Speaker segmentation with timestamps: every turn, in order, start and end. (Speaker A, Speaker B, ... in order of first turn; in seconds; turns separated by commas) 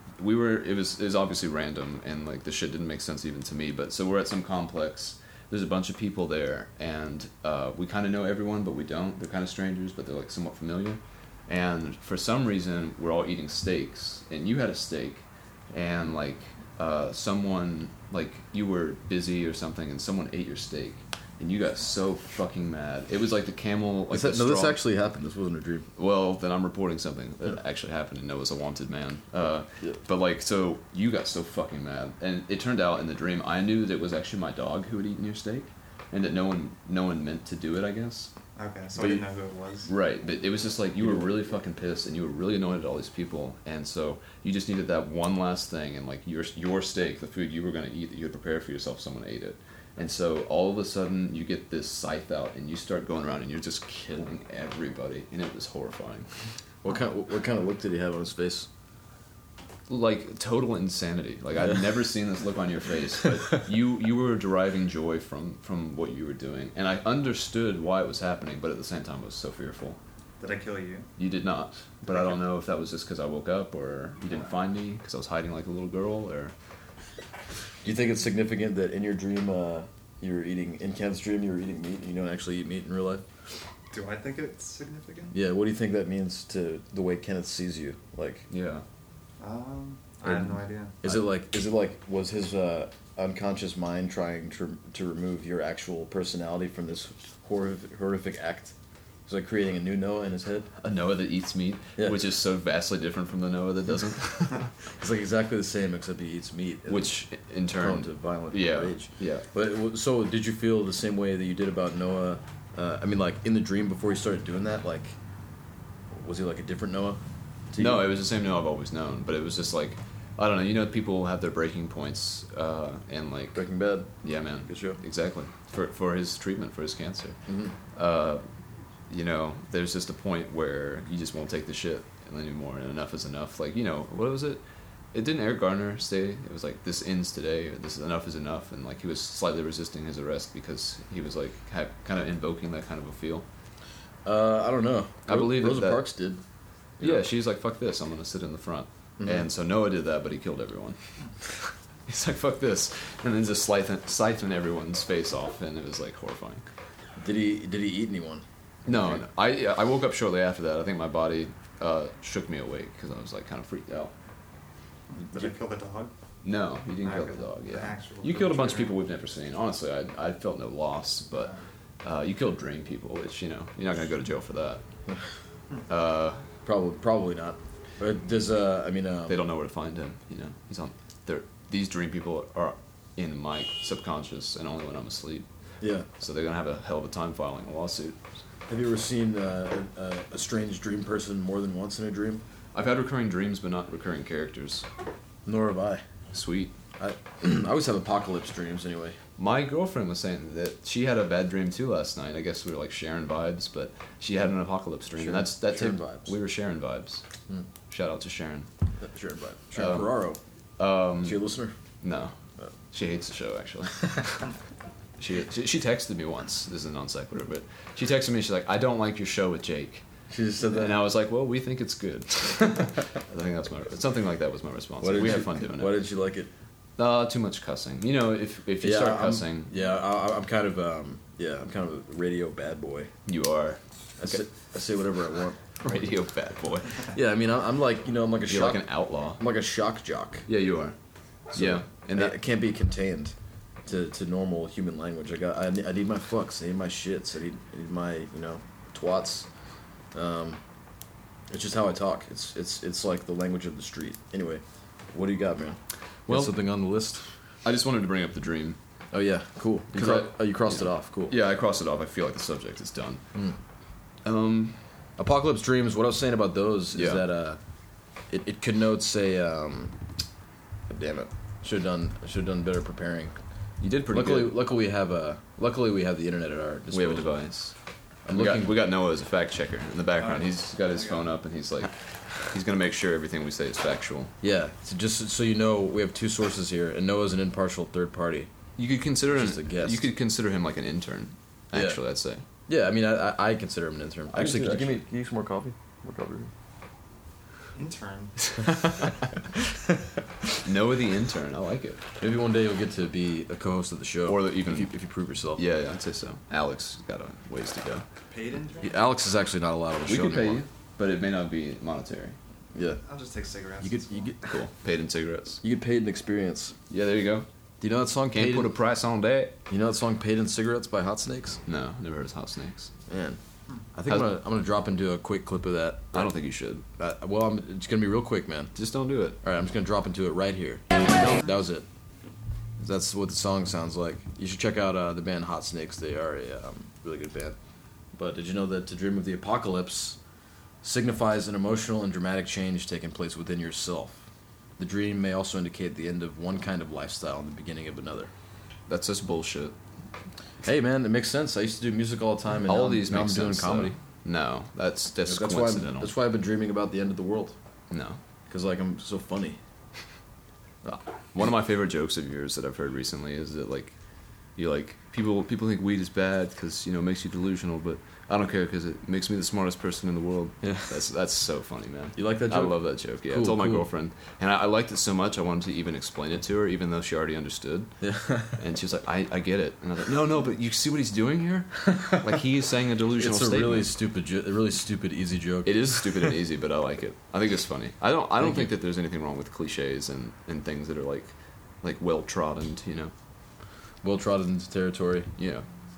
Speaker A: 0.2-24.8, Speaker B: 24.1-25.9, Speaker A: 26.0-38.3, Speaker C: 38.6-39.9, Speaker A: 38.9-39.2, Speaker A: 39.9-56.3, Speaker B: 41.0-41.3, Speaker B: 56.8-58.7, Speaker A: 59.9-70.0, Speaker C: 70.4-71.1, Speaker A: 71.2-76.5, Speaker C: 72.1-72.4, Speaker B: 77.8-83.2, Speaker C: 83.9-85.3, Speaker B: 85.3-88.5, Speaker A: 88.5-88.8, Speaker C: 89.4-90.9, Speaker A: 90.2-91.2, Speaker B: 91.0-98.7, Speaker B: 99.3-100.7, Speaker A: 100.8-104.7, Speaker B: 105.0-107.2, Speaker A: 106.9-109.4, Speaker B: 107.8-115.2, Speaker B: 116.1-118.1, Speaker A: 117.8-123.6, Speaker B: 123.5-124.1, Speaker A: 124.2-127.4, Speaker B: 124.7-125.0, Speaker B: 127.5-127.8, Speaker A: 127.9-128.4, Speaker A: 129.1-143.4, Speaker B: 144.2-146.4, Speaker A: 145.3-146.1, Speaker A: 147.0-151.0, Speaker B: 149.2-149.5, Speaker A: 152.1-156.7, Speaker B: 157.2-159.2, Speaker A: 158.8-164.1, Speaker C: 165.1-166.1, Speaker A: 166.4-174.8, Speaker C: 167.0-169.0, Speaker A: 175.9-176.4, Speaker B: 176.6-179.4, Speaker A: 179.3-185.4, Speaker B: 185.8-186.1, Speaker A: 186.2-188.2, Speaker B: 188.7-192.4, Speaker A: 192.7-194.9, Speaker B: 195.4-196.0, Speaker A: 196.3-196.8, Speaker B: 197.0-199.2, Speaker A: 199.4-207.2, Speaker B: 205.2-206.3, Speaker A: 207.9-208.7, Speaker B: 209.0-210.4, Speaker A: 209.8-210.2, Speaker A: 210.8-211.4, Speaker B: 211.2-211.8, Speaker A: 212.0-212.3, Speaker A: 212.9-214.5, Speaker A: 215.2-220.1, Speaker B: 220.3-221.0, Speaker A: 220.6-225.9, Speaker B: 225.0-226.5, Speaker A: 227.0-229.7, Speaker B: 228.8-233.1, Speaker A: 233.3-234.4, Speaker B: 234.2-236.0, Speaker A: 235.8-237.1, Speaker B: 237.1-240.5, Speaker A: 238.5-239.4, Speaker A: 240.5-240.9, Speaker B: 241.5-249.5, Speaker A: 241.5-242.4, Speaker B: 250.1-250.6, Speaker B: 251.5-257.3, Speaker A: 256.3-256.6, Speaker A: 257.6-258.8, Speaker B: 259.1-261.4, Speaker A: 259.9-263.2, Speaker A: 264.2-264.8, Speaker B: 265.2-267.6, Speaker A: 266.9-267.2, Speaker B: 268.3-269.9, Speaker B: 270.9-273.4, Speaker A: 273.8-274.6, Speaker B: 274.1-277.3, Speaker A: 276.9-277.8, Speaker B: 278.3-278.8, Speaker A: 278.3-281.9, Speaker C: 280.2-281.3, Speaker A: 282.5-284.3, Speaker B: 284.4-288.5, Speaker A: 288.8-292.4, Speaker B: 289.3-290.1, Speaker B: 291.7-292.0, Speaker B: 292.7-296.5, Speaker A: 294.3-295.0, Speaker C: 297.8-298.5, Speaker A: 300.6-302.0, Speaker B: 302.2-305.6, Speaker A: 304.3-304.9, Speaker A: 305.6-308.1, Speaker C: 308.3-309.0, Speaker B: 308.8-310.6, Speaker A: 310.1-312.4, Speaker B: 312.8-313.0, Speaker C: 313.0-314.3, Speaker B: 313.8-314.5, Speaker A: 314.4-315.6, Speaker B: 315.6-316.8, Speaker A: 316.9-317.5, Speaker B: 317.8-318.8, Speaker A: 318.3-319.6, Speaker B: 319.7-321.6, Speaker A: 321.7-322.9, Speaker B: 323.1-323.4, Speaker B: 323.9-326.3, Speaker A: 326.1-326.8, Speaker B: 327.0-328.7, Speaker A: 328.8-329.4, Speaker B: 329.4-331.9, Speaker B: 332.8-337.6, Speaker B: 338.2-340.2, Speaker B: 340.8-344.2, Speaker B: 344.8-348.3, Speaker A: 348.9-349.8, Speaker B: 350.6-353.9, Speaker A: 352.6-356.1, Speaker B: 355.2-357.6, Speaker A: 357.9-358.2, Speaker B: 358.5-359.6, Speaker A: 361.3-363.9, Speaker A: 364.6-377.9, Speaker B: 370.6-370.9, Speaker B: 372.2-373.9, Speaker B: 378.0-378.6, Speaker A: 378.6-383.9, Speaker B: 382.0-382.2, Speaker B: 383.2-386.4, Speaker A: 385.6-393.1, Speaker B: 388.4-388.7, Speaker B: 394.0-395.3, Speaker A: 395.4-395.7